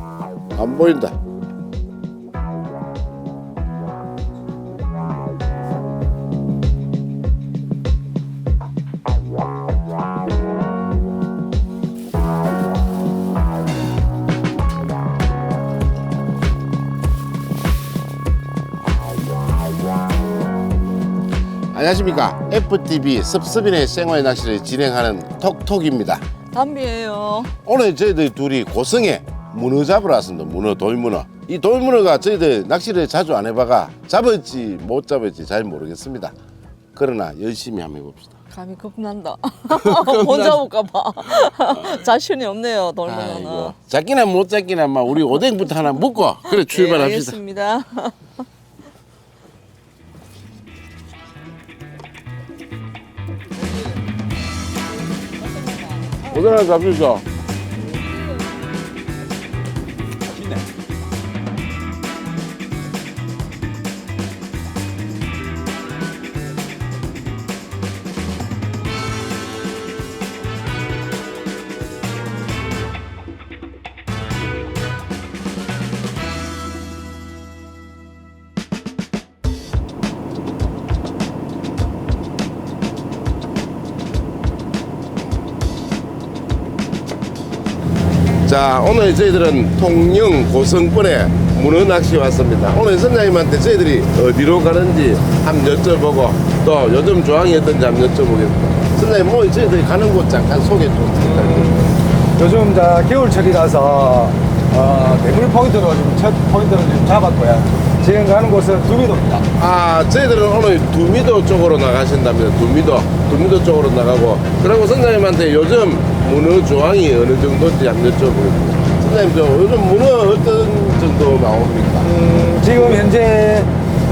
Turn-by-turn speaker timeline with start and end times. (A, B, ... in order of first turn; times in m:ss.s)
0:00.5-0:01.2 A
0:21.7-0:26.2 A
0:26.5-0:27.5 B
0:27.6-0:36.3 A
0:36.9-0:38.4 A
0:38.5-0:43.7 B
0:39.7-0:40.6 A
0:43.0-0:47.4 A
0:46.5-0:48.1 B
0:56.2-0:57.2 A
1:28.4-1:41.8 A
1:41.2-1:49.5 C
1:49.6-2:02.1 A
2:02.0-2:03.7 C